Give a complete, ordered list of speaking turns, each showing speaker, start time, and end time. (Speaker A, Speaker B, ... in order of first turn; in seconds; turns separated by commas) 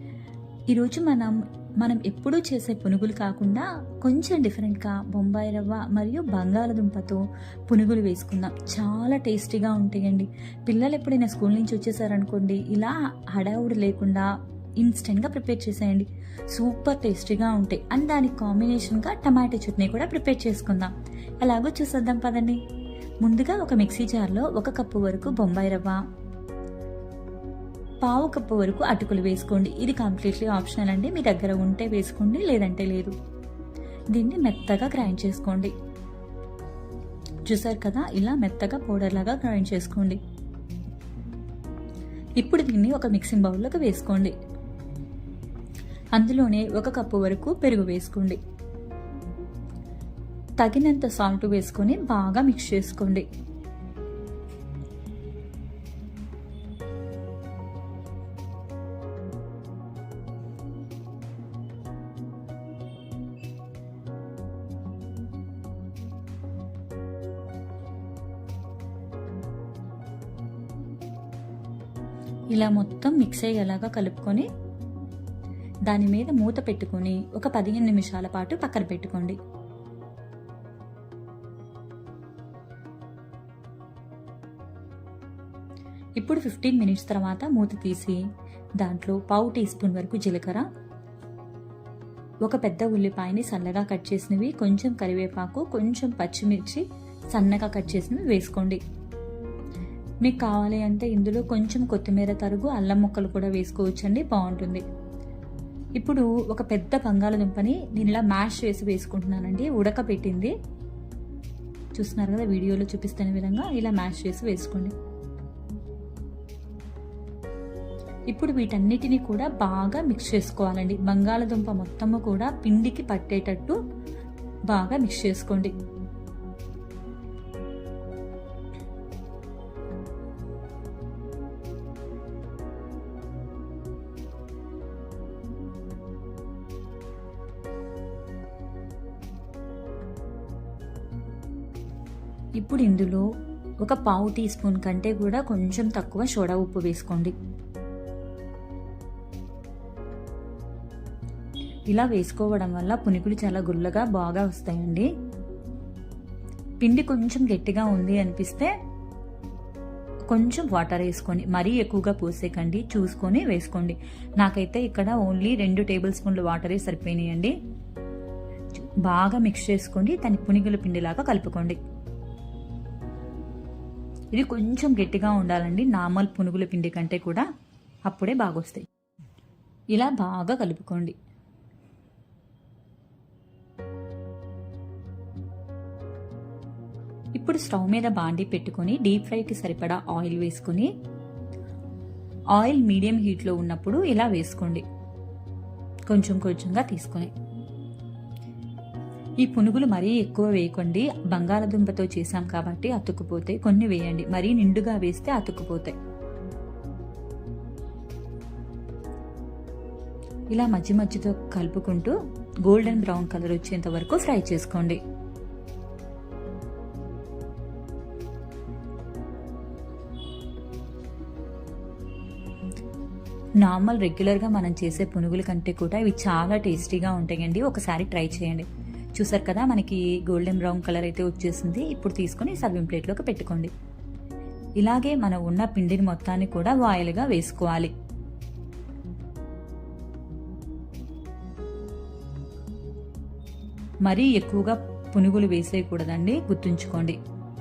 Speaker A: 0.7-14.3, Speaker A: 14.8-20.9, Speaker A: 21.4-22.6, Speaker A: 23.2-26.0, Speaker A: 28.0-33.1, Speaker A: 34.1-35.7, Speaker A: 37.4-40.2, Speaker A: 42.4-44.3, Speaker A: 46.1-48.4, Speaker A: 50.6-53.2, Speaker A: 72.5-74.5, Speaker A: 75.9-79.4, Speaker A: 86.2-88.2, Speaker A: 88.8-90.7, Speaker A: 92.4-98.8, Speaker A: 100.2-104.8, Speaker A: 106.0-110.5, Speaker A: 111.9-114.9, Speaker A: 118.3-123.8, Speaker A: 124.7-125.7, Speaker A: 142.6-143.2, Speaker A: 143.8-147.3, Speaker A: 151.9-155.1, Speaker A: 156.8-158.7, Speaker A: 160.3-167.5, Speaker A: 169.0-171.8, Speaker A: 174.3-177.4, Speaker A: 178.1-178.8, Speaker A: 179.9-181.1, Speaker A: 187.3-190.9, Speaker A: 192.5-194.8, Speaker A: 196.1-197.3, Speaker A: 199.4-205.9, Speaker A: 210.5-215.0, Speaker A: 223.6-233.7, Speaker A: 234.8-237.9, Speaker A: 244.0-247.2